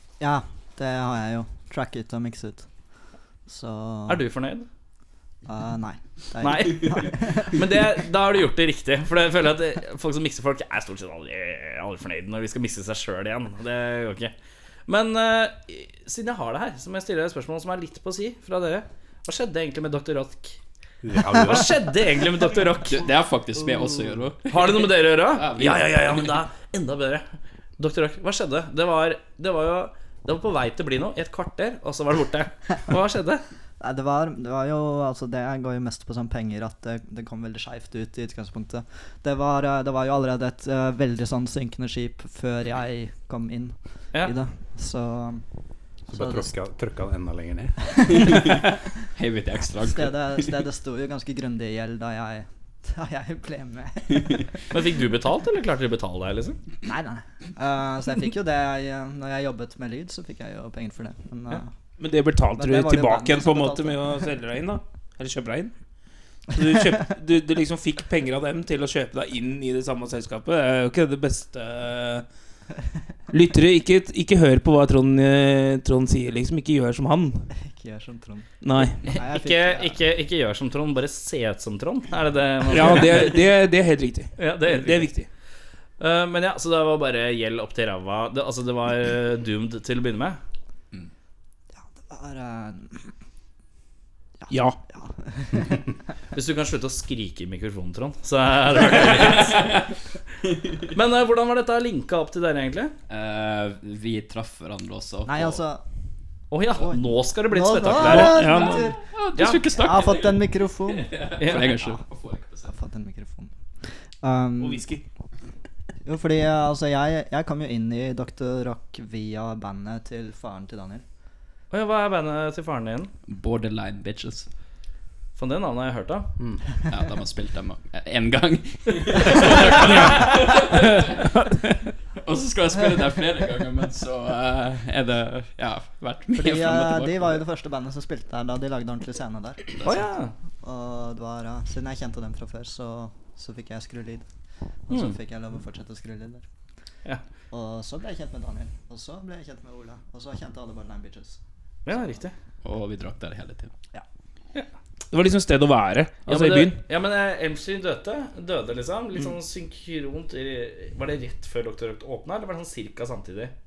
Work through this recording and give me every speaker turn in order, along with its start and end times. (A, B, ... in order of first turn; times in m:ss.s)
0:00.2-0:02.7 A
0:03.5-0:04.2 A
0:04.1-0:04.7 B
0:05.5-0:07.7 A
0:06.4-0:14.3 B
0:14.9-0:20.6 B
0:21.0-0:21.9 C
0:21.4-0:23.0 B
0:22.6-0:26.4 D
0:24.5-0:33.4 B
0:33.8-0:45.4 A
0:46.1-0:47.8 C
0:46.1-0:46.5 A
0:47.9-0:48.5 A
0:48.1-0:50.6 D
0:49.8-0:54.5 A
0:54.2-0:54.4 D
0:54.7-0:56.6 B
0:56.8-1:01.7 A
1:02.0-1:05.7 E
1:02.6-1:04.0 A
1:06.5-1:12.3 E
1:13.3-1:17.5 E
1:17.6-1:18.5 A
1:18.6-1:19.1 E
1:19.0-1:20.0 A
1:19.1-1:23.3 B
1:22.7-1:25.3 E
1:24.4-1:25.1 B
1:26.0-1:30.4 B
1:31.8-1:33.1 A
1:34.4-1:35.9 A
1:34.5-1:34.8 E
1:36.4-1:39.8 B
1:39.0-1:39.8 D
1:40.9-1:42.9 B
1:43.1-1:45.6 D
1:45.3-1:45.8 A
1:46.5-1:48.5 B
1:46.8-1:49.0 A
1:48.0-1:49.0 E
1:48.0-1:52.7 D
1:49.4-1:49.6 B
1:49.7-1:52.0 A
1:51.4-1:51.7 B
1:52.6-1:53.5 A
1:54.2-1:54.9 A
1:54.6-1:55.0 E
1:56.0-2:01.0 A
2:01.7-2:03.1 B
2:03.3-2:04.5 D
2:05.4-2:06.3 B
2:06.9-2:11.4 D
2:12.2-2:17.4 D
2:16.4-2:20.1 A
2:19.8-2:20.3 B
2:20.6-2:24.3 A
2:24.9-2:26.4 A
2:24.9-2:25.2 B
2:27.5-2:31.4 A
2:31.8-2:32.3 B
2:32.6-2:33.7 D
2:35.1-2:36.8 E
2:36.3-2:43.5 B